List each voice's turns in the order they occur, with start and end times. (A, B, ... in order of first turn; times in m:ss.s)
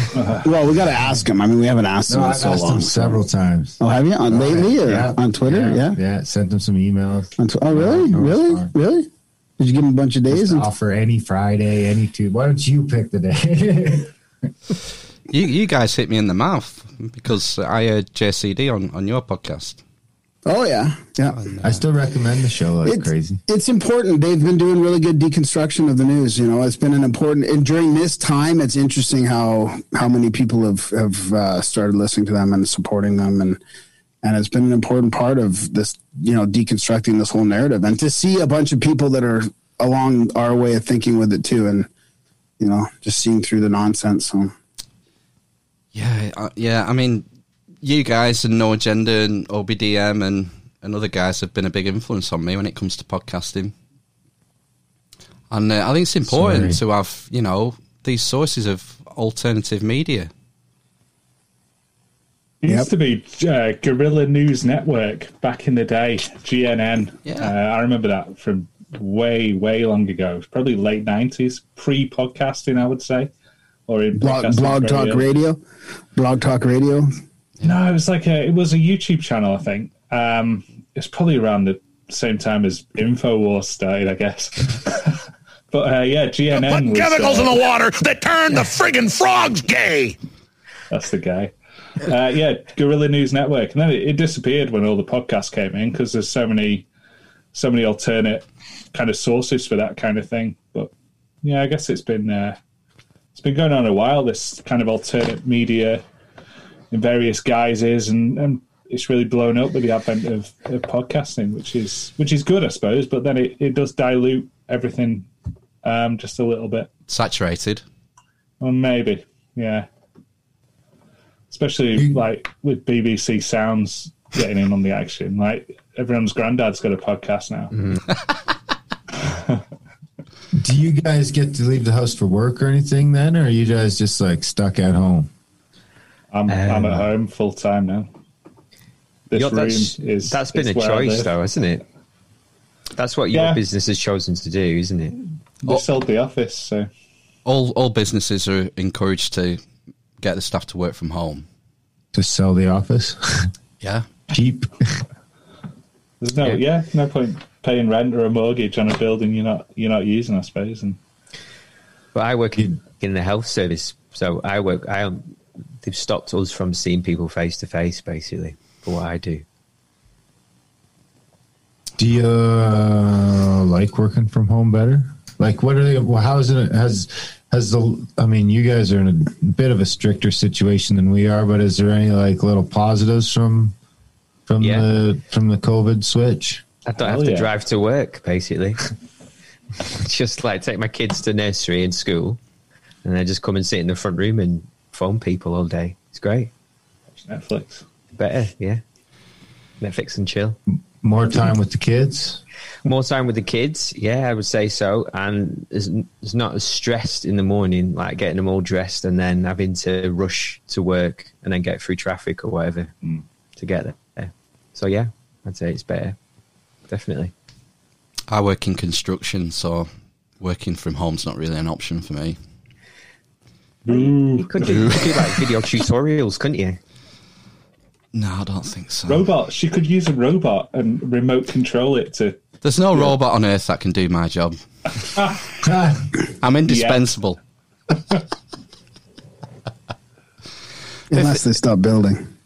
0:00.2-0:00.4 A
0:00.4-0:03.2 B
0:02.1-0:08.7 C
0:03.8-0:06.0 B
0:07.4-0:09.1 B
0:09.6-0:10.7 B
0:10.3-0:14.1 C
0:15.3-0:19.8 D
0:20.5-0:21.4 B
0:21.3-0:21.8 D
0:21.6-0:23.4 C
0:22.9-0:33.6 B
0:34.2-0:41.9 B
0:42.6-0:44.5 B
0:45.9-0:47.2 D
0:47.8-0:53.7 D
0:55.5-1:00.3 D
0:56.2-0:56.8 C
1:02.6-1:13.3 A
1:07.3-1:07.5 D
1:13.9-1:15.3 A
1:14.2-1:15.6 B
1:16.2-1:17.1 B
1:17.6-1:27.6 A
1:26.6-1:30.2 E
1:30.9-1:36.9 A
1:37.5-1:40.9 A
1:41.4-1:42.6 A
1:43.4-1:46.0 A
1:46.9-1:55.3 A
1:55.8-1:56.9 A
1:57.1-1:57.8 D
1:58.6-1:59.9 A
2:01.5-2:07.7 A
2:02.0-2:02.2 C
2:07.7-2:08.0 F
2:09.2-2:09.6 A
2:10.6-2:15.3 C
2:16.3-2:18.1 A
2:16.5-2:17.1 F
2:19.3-2:21.3 A
2:19.3-2:21.8 F
2:23.0-2:25.2 F
2:23.3-2:23.6 A
2:25.6-2:26.9 A
2:27.5-2:29.6 D
2:30.2-2:31.4 D
2:32.1-2:33.5 C
2:33.8-2:34.1 D
2:34.3-2:35.0 C
2:36.2-2:41.0 A
2:42.1-2:49.4 F
2:52.0-3:03.8 C
3:04.5-3:06.6 C
3:04.6-3:04.9 F
3:06.9-3:08.8 F
3:07.0-3:07.5 A
3:09.9-3:12.4 F
3:13.0-3:16.5 F
3:17.2-3:17.8 A
3:18.2-3:18.8 F
3:19.8-3:20.6 F
3:21.0-3:22.4 C
3:22.8-3:32.9 F
3:33.6-3:36.2 F
3:36.9-3:37.3 F
3:38.3-3:39.9 D
3:40.4-3:42.4 D
3:43.8-3:45.0 A
3:43.9-3:46.8 F
3:44.7-3:45.3 D
3:48.1-3:49.3 D
3:49.1-3:52.4 A
3:52.6-3:54.6 D
3:55.6-3:56.0 C
3:56.4-3:57.4 D
3:56.7-3:57.1 A
3:57.9-3:58.2 A
4:01.1-4:02.3 B
4:01.1-4:01.4 D